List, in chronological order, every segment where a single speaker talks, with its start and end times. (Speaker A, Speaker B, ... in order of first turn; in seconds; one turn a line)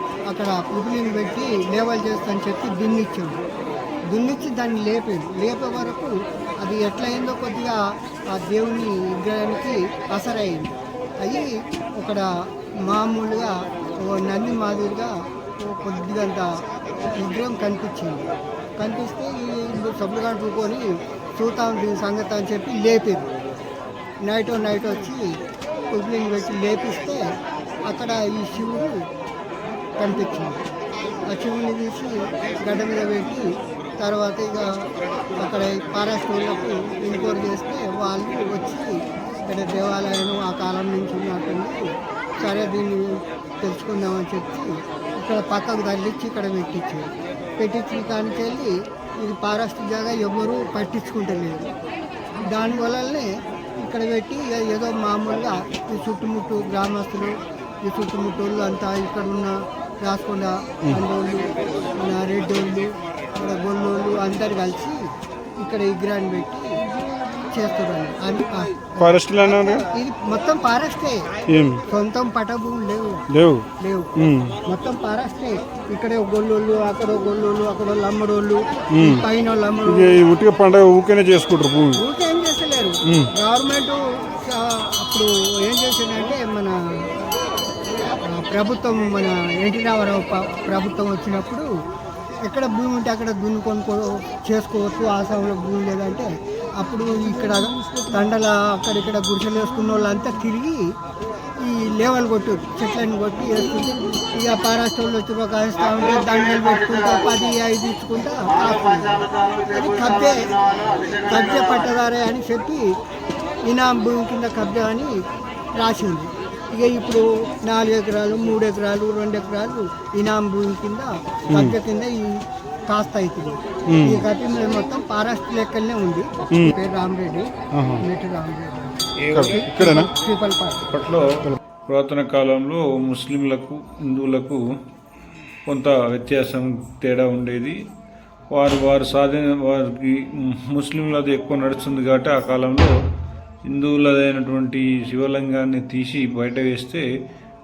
Speaker A: 0.3-3.4
Speaker A: 4.1-7.8
Speaker A: 8.3-10.7
Speaker A: 11.2-12.2
Speaker A: 12.8-16.5
Speaker A: 17.2-18.2
Speaker A: 18.8-23.3
Speaker A: 24.2-25.3
Speaker A: 25.9-27.2
Speaker A: 27.8-28.9
Speaker A: 30.0-30.6
Speaker A: 31.3-33.4
Speaker A: 34.0-34.9
Speaker A: 35.4-41.8
Speaker A: 42.4-51.7
Speaker A: 52.5-53.3
Speaker A: 53.8-57.3
Speaker A: 57.8-65.0
Speaker A: 65.6-66.7
Speaker A: 67.5-71.3
Speaker B: 69.0-69.8
Speaker B: 71.5-71.8
Speaker A: 71.9-73.2
Speaker B: 73.3-73.7
Speaker A: 73.8-74.1
Speaker B: 74.2-74.6
Speaker A: 74.7-80.2
Speaker B: 78.9-79.2
Speaker B: 79.9-82.0
Speaker A: 82.0-86.7
Speaker A: 88.2-91.7
Speaker A: 92.4-100.8
Speaker A: 101.6-110.6
Speaker A: 111.1-112.8
Speaker A: 113.6-115.1
Speaker A: 115.8-122.3
Speaker B: 121.5-121.7
Speaker A: 122.9-130.8
Speaker B: 123.9-124.2
Speaker B: 127.7-128.0
Speaker B: 129.3-130.1
Speaker C: 130.9-134.6
Speaker C: 135.7-137.8
Speaker C: 138.5-142.9
Speaker C: 143.6-147.0